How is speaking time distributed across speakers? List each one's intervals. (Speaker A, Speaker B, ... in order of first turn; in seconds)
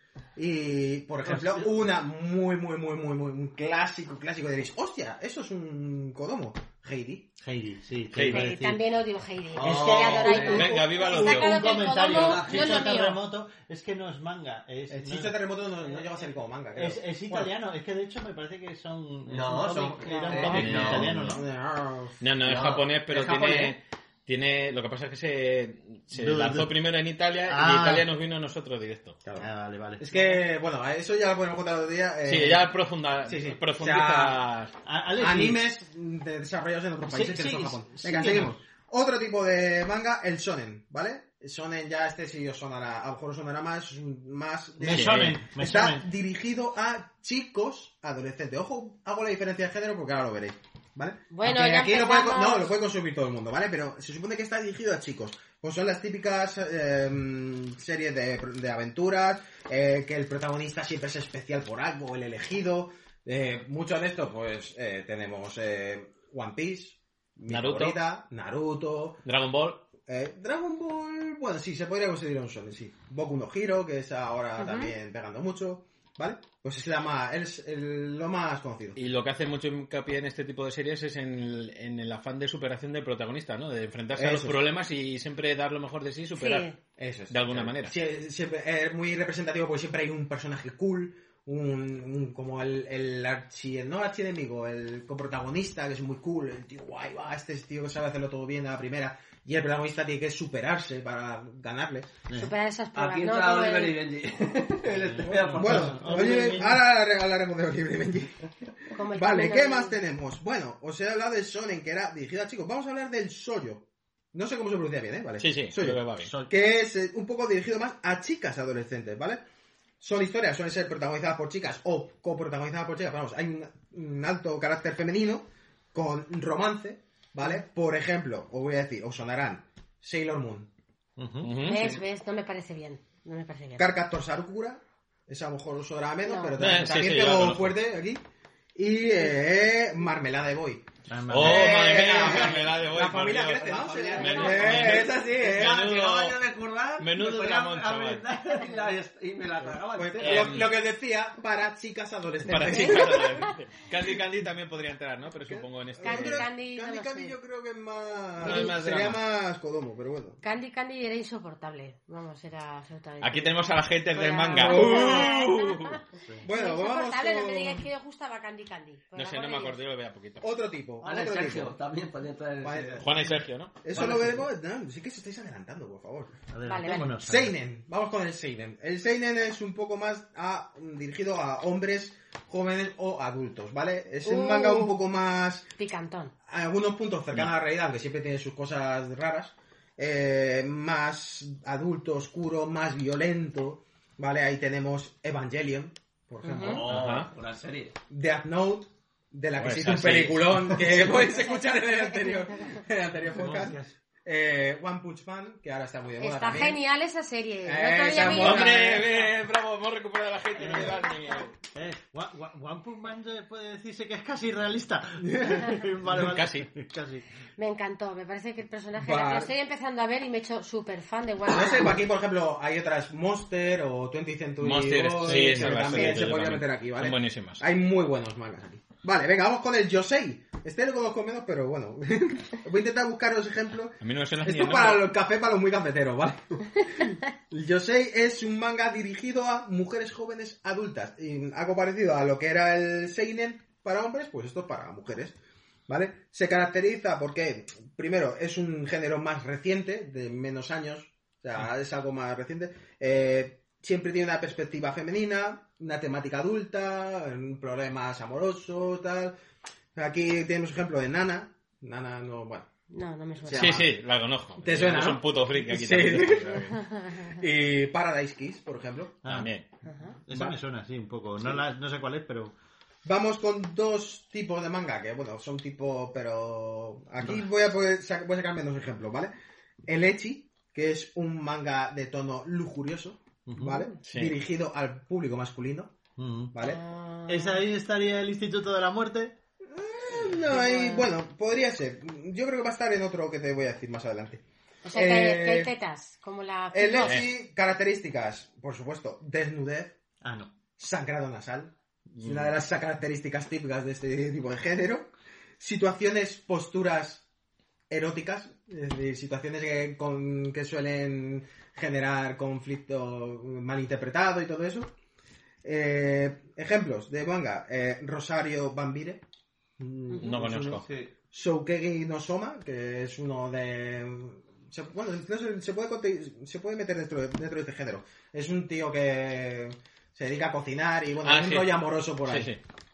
Speaker A: 0.3-7.3, 14.9-17.5, 21.2-22.2, 30.0-32.7, 33.2-34.4, 35.2-69.2, 70.1-79.0, 84.1-84.6, 87.0-102.1, 105.4-108.5, 109.1-119.4, 120.0-130.7, 133.8-138.2, 138.8-145.9, 149.9-153.4, 155.5-160.4, 164.6-165.7, 166.4-167.8, 170.4-171.8, 172.6-176.4, 177.1-185.7, 186.5-196.9, 198.1-206.8, 207.6-209.1, 215.3-215.7, 219.0-219.5, 221.5-245.3, 245.9-259.3, 259.9-262.7, 263.5-263.9, 264.6-266.7, 267.3-269.2, 273.0-279.3, 279.9-285.9, 286.5-286.8, 289.7-295.7, 296.7-299.9, 300.8-307.2, 307.9-314.9, 315.6-319.2, 319.8-320.6, 321.3-332.5
Speaker B: 1.2-1.7, 7.4-8.8, 9.6-16.0, 16.7-21.4, 26.1-26.8, 27.5-28.1, 29.4-30.4, 34.9-35.6, 37.0-38.6, 44.8-46.1, 102.3-102.5, 104.9-106.8, 116.2-116.5, 131.2-131.6, 141.1-142.0, 176.5-177.6, 203.3-203.9, 210.6-211.1, 211.7-217.2, 225.2-226.3, 269.2-269.5, 270.2-272.5, 277.2-277.5, 283.5-283.9, 286.2-286.5, 287.3-289.4, 300.2-300.5
Speaker C: 8.1-8.5, 10.4-11.7, 20.5-21.3, 22.2-29.2, 32.2-34.7, 44.9-45.3, 67.5-68.0, 69.2-69.8, 79.0-86.7, 87.3-87.9, 115.4-116.3, 131.4-132.0, 136.6-137.8, 141.3-146.4, 147.0-148.2, 150.2-150.8, 152.4-156.4, 158.4-159.2, 163.2-165.9, 169.1-170.5, 173.0-173.8, 196.9-197.3, 199.6-201.1, 208.2-211.5, 216.1-216.7, 224.6-227.6, 234.0-235.1, 263.5-266.8, 269.2-269.6, 284.0-284.4, 297.0-297.3, 302.2-302.5, 320.2-320.9, 331.2-332.6
Speaker D: 8.3-13.2, 20.1-20.4, 51.3-52.7, 74.6-74.9, 86.3-86.7, 102.3-104.0, 108.9-110.0, 131.6-133.9, 136.2-136.6, 152.7-153.5, 156.0-157.3, 158.4-158.7, 160.4-169.8, 176.7-177.1, 184.2-184.9, 185.8-186.3, 196.4-196.8, 201.4-202.3, 206.2-209.0, 217.6-221.9, 262.9-263.7, 266.8-267.3, 269.8-270.1, 286.6-287.6, 290.5-291.1, 294.8-297.2
Speaker E: 9.6-10.7, 12.1-12.7, 19.3-21.2, 22.4-23.8, 102.9-106.6, 143.5-150.6, 171.0-173.2, 173.9-174.4, 196.6-197.9, 320.3-321.1